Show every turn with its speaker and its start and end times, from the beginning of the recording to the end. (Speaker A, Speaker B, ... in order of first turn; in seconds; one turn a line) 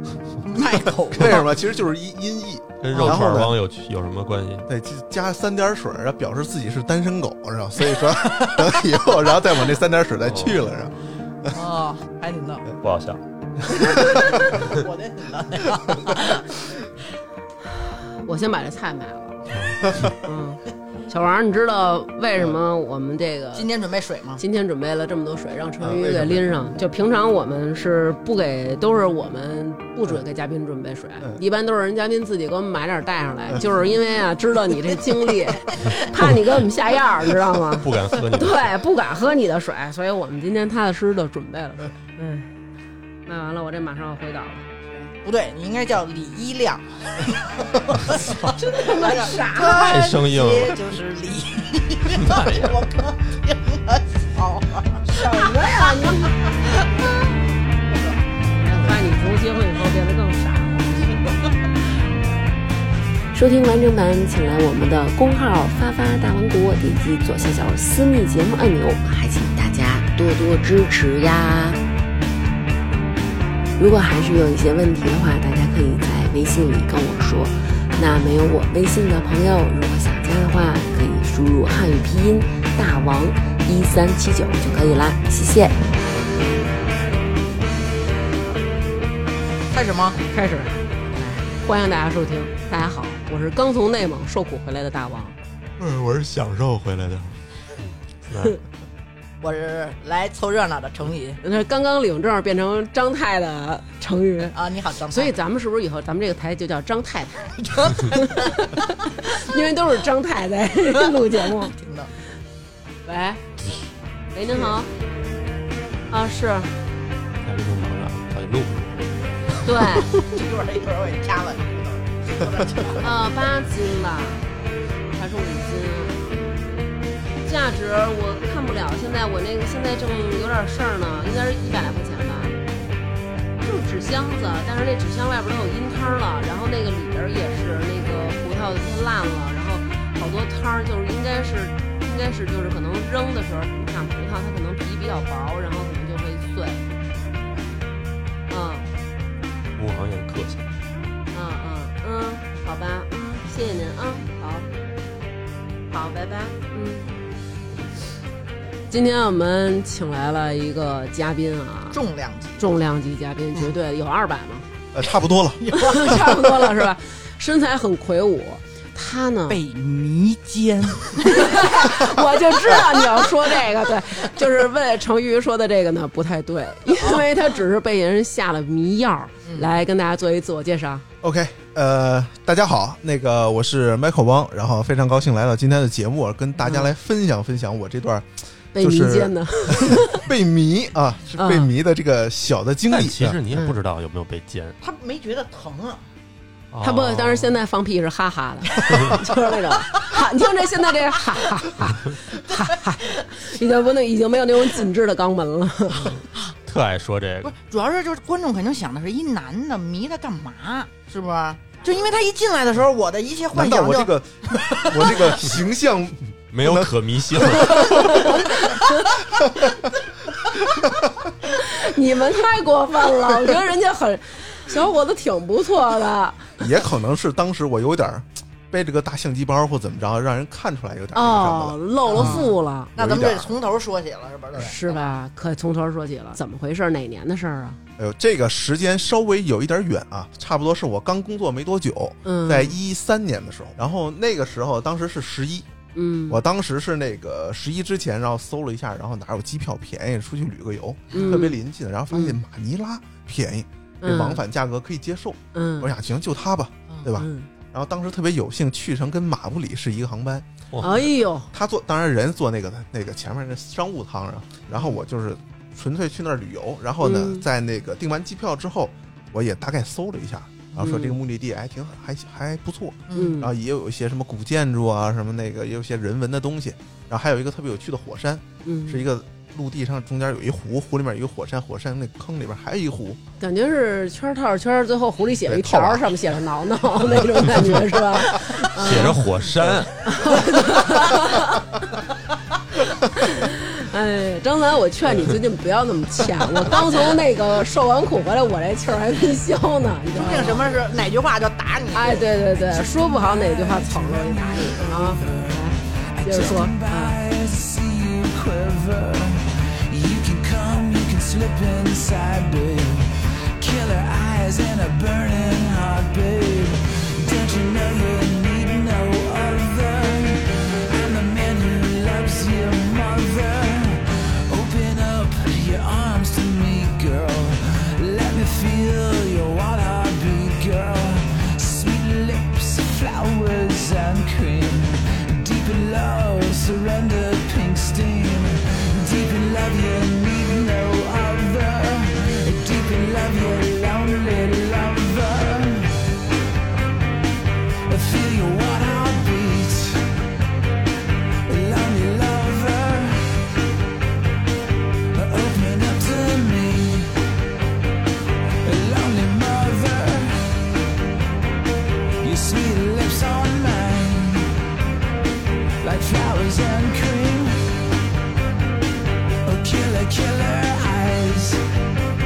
Speaker A: 0.4-1.5
Speaker B: 1.1-3.5
Speaker C: 2.8-4.7
Speaker A: 2.9-3.3
Speaker B: 4.7-11.6
Speaker C: 10.2-10.6
Speaker A: 11.5-12.7
Speaker C: 12.8-13.2
Speaker A: 13.8-16.6
Speaker D: 17.8-19.4
Speaker D: 20.0-23.7
Speaker A: 23.5-24.4
Speaker D: 24.4-42.5
Speaker B: 25.9-26.2
Speaker C: 37.8-38.7
Speaker D: 43.2-44.7
Speaker A: 45.0-56.8
Speaker D: 48.5-49.7
Speaker C: 49.6-50.8
Speaker C: 52.3-52.7
Speaker D: 55.1-56.5
Speaker A: 57.9-58.2
Speaker D: 58.5-61.3
Speaker E: 63.3-71.8
Speaker E: 73.8-85.8
Speaker A: 89.7-90.2
Speaker D: 90.3-90.8
Speaker A: 91.1-91.5
Speaker D: 91.6-95.4
Speaker C: 95.8-98.6
Speaker A: 99.4-101.4
Speaker D: 101.4-104.5
Speaker A: 104.5-105.3
Speaker D: 105.1-111.7
Speaker A: 107.6-108.5
Speaker A: 110.9-112.1
Speaker D: 113.0-113.5
Speaker D: 114.3-114.9
Speaker D: 116.1-116.7
Speaker C: 117.4-119.2
Speaker D: 119.6-120.1
Speaker A: 120.0-123.3
Speaker D: 123.0-124.5
Speaker D: 125.1-126.2
Speaker D: 127.4-132.6
Speaker D: 133.6-146.8
Speaker D: 148.5-148.9
Speaker C: 149.8-150.7
Speaker D: 151.3-154.7
Speaker D: 155.9-157.1
Speaker D: 158.9-162.0
Speaker A: 161.9-162.7
Speaker D: 162.6-164.7
Speaker B: 164.9-166.2
Speaker A: 165.6-166.3
Speaker D: 165.7-169.6
Speaker A: 169.5-171.7
Speaker D: 171.2-181.0
Speaker A: 179.4-179.7
Speaker B: 181.2-193.4
Speaker D: 186.6-186.9
Speaker D: 188.7-190.3
Speaker D: 191.4-191.7
Speaker C: 192.9-194.8
Speaker A: 194.8-196.0
Speaker C: 196.7-197.6
Speaker D: 196.8-206.2
Speaker A: 205.9-206.5
Speaker C: 206.7-207.5
Speaker A: 207.4-215.4
Speaker B: 213.5-218.1
Speaker C: 216.5-218.3
Speaker D: 217.7-219.1
Speaker D: 221.4-226.6
Speaker B: 226.6-232.4
Speaker D: 231.1-232.9
Speaker A: 232.1-235.2
Speaker B: 232.9-233.5
Speaker D: 234.5-237.8
Speaker B: 238.0-245.7
Speaker D: 242.2-242.8
Speaker D: 245.9-246.4
Speaker B: 246.3-283.2
Speaker D: 251.1-251.6
Speaker D: 254.0-254.4
Speaker D: 255.5-255.9
Speaker D: 257.2-257.5
Speaker D: 260.8-261.5
Speaker D: 267.0-267.4
Speaker D: 270.8-271.1
Speaker A: 273.1-273.4
Speaker D: 273.1-273.5
Speaker D: 278.6-279.0
Speaker D: 283.4-289.3
Speaker B: 285.4-286.2
Speaker C: 288.8-290.1
Speaker D: 290.0-292.0
Speaker D: 293.0-300.6
Speaker A: 300.1-304.0
Speaker D: 301.9-307.2
Speaker A: 304.5-306.6
Speaker F: 306.6-346.0
Speaker F: 347.9-350.1
Speaker F: 351.5-353.3
Speaker F: 355.1-357.1
Speaker F: 358.6-360.4
Speaker F: 362.2-364.5
Speaker F: 365.8-367.6
Speaker F: 369.4-371.6